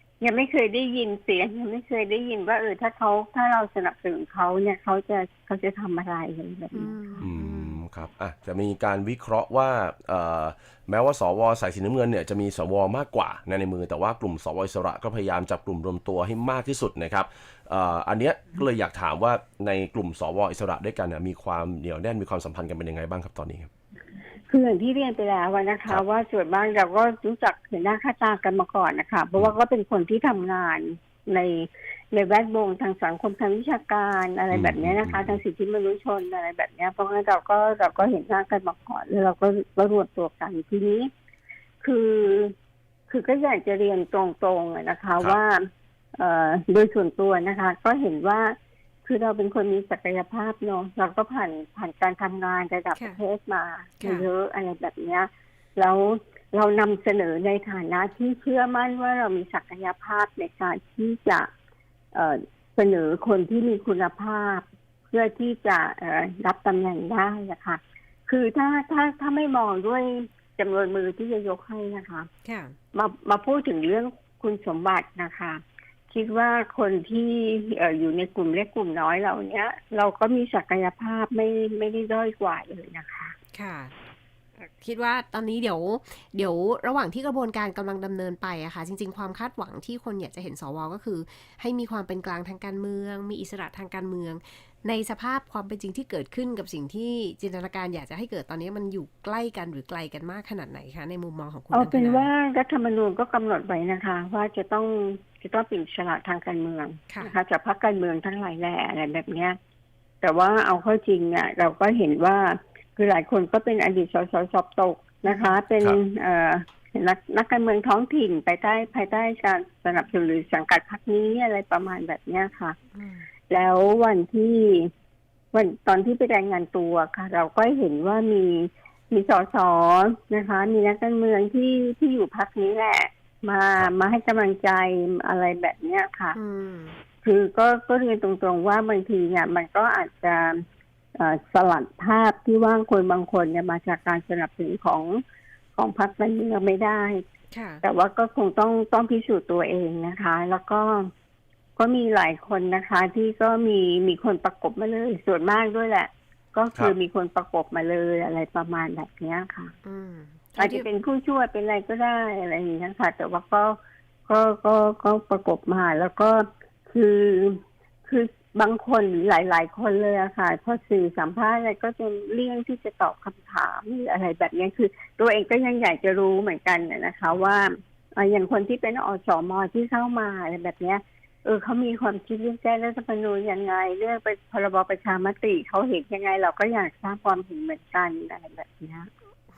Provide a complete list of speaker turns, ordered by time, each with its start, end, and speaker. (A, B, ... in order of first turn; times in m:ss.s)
0:00.2-0:07.2 A
0:06.7-0:07.8 B
0:07.2-0:23.7 C
0:24.5-0:41.1 A
0:34.5-0:35.4 C
0:41.8-0:42.5 A
0:43.1-0:45.6 A
0:46.2-0:48.5 A
0:49.0-1:01.5 A
0:54.0-0:54.3 B
1:02.1-1:12.3 A
1:12.4-1:12.8 B
1:12.9-1:23.4 A
1:23.5-1:23.9 B
1:24.6-1:42.3 B
1:41.7-1:49.6 A
1:50.2-2:02.8 A
1:55.3-1:55.6 B
2:03.0-2:03.3 B
2:03.5-2:04.9 A
2:05.5-2:16.4 A
2:13.8-2:14.1 C
2:16.4-2:17.0 B
2:17.2-2:20.6 A
2:21.2-2:25.2 A
2:25.8-2:27.2 A
2:27.5-2:27.8 B
2:27.8-2:31.1 A
2:31.8-2:39.7 A
2:39.8-2:40.9 B
2:40.6-2:43.8 A
2:44.3-3:09.1 A